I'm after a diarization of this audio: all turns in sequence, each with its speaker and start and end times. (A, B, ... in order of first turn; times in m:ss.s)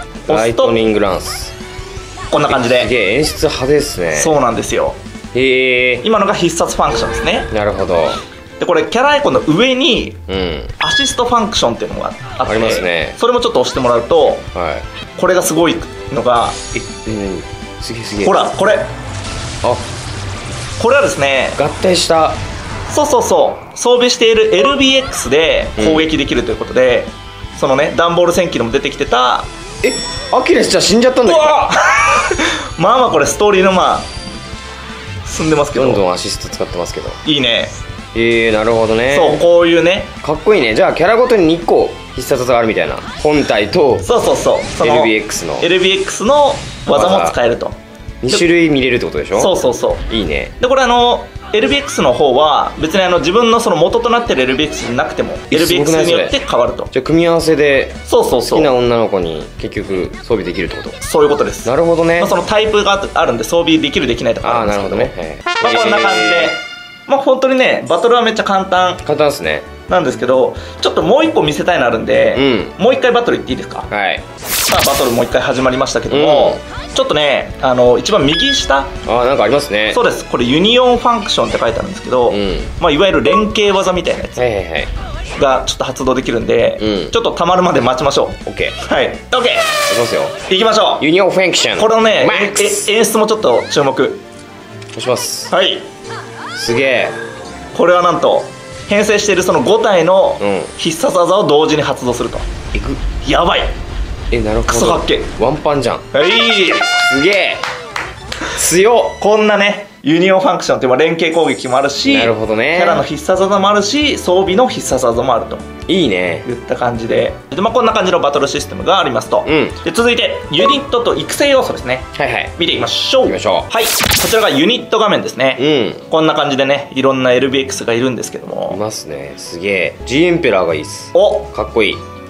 0:00.3-0:01.5 A
0:00.3-0:00.8 B
0:02.3-0:02.9 B
0:02.4-0:04.4 A
0:04.1-0:05.0 B
0:05.3-0:06.0 A
0:06.0-0:07.5 B
0:07.5-0:08.2 A
0:08.6-0:10.2 B
0:10.3-0:10.7 A
0:10.8-0:14.5 B
0:12.4-0:13.2 A
0:14.5-0:14.8 A
0:15.2-0:16.6 B
0:16.7-0:18.5 A
0:18.2-0:18.9 B
0:20.8-0:21.6 B
0:21.6-0:22.4 A
0:22.9-0:29.5 B
0:25.8-0:26.1 A
0:29.8-0:31.7 A
0:31.2-0:34.1 B
0:35.2-0:36.0 B
0:35.7-0:37.2 A
0:37.2-0:37.7 B
0:38.1-0:39.4 A
0:39.1-0:40.1 B
0:40.2-0:44.1 A
0:44.0-0:47.8 B
0:44.8-0:45.7 A
0:46.9-0:47.3 A
0:48.2-0:49.5 A
0:49.3-0:50.0 B
0:50.1-0:50.5 A
0:50.6-0:56.9 B
0:55.5-0:56.4 A
0:56.9-1:01.0 A
0:58.1-0:58.7 B
1:01.0-1:09.0 B
1:01.6-1:02.3 A
1:04.4-1:06.5 A
1:09.0-1:09.7 A
1:09.9-1:13.9 B
1:12.3-1:12.7 A
1:13.9-1:14.2 A
1:14.6-1:18.9 B
1:16.1-1:16.6 A
1:19.0-1:20.0 A
1:19.9-1:24.4 B
1:22.3-1:22.7 A
1:24.4-1:24.9 A
1:25.4-1:29.8 B
1:26.8-1:27.1 A
1:28.4-1:28.8 A
1:29.8-1:30.4 A
1:30.5-1:31.0 B
1:31.0-1:32.9 A
1:31.8-1:34.2 B
1:34.9-1:35.5 A
1:35.5-1:35.9 B
1:36.5-1:37.2 A
1:37.7-1:42.5 B
1:40.4-1:40.7 A
1:42.7-1:43.0 A
1:43.2-1:43.7 B
1:44.3-1:46.0 A
1:44.6-1:45.3 B
1:46.1-1:47.0 B
1:47.0-1:47.6 A
1:48.5-1:49.2 A
1:49.2-1:55.7 B
1:52.0-1:53.0 A
1:55.9-1:56.4 A
1:56.4-2:08.8 B
1:59.4-1:59.8 A
2:02.1-2:02.5 A
2:03.2-2:03.7 A
2:05.6-2:06.0 A
2:08.7-2:12.0 A
2:11.1-2:11.5 B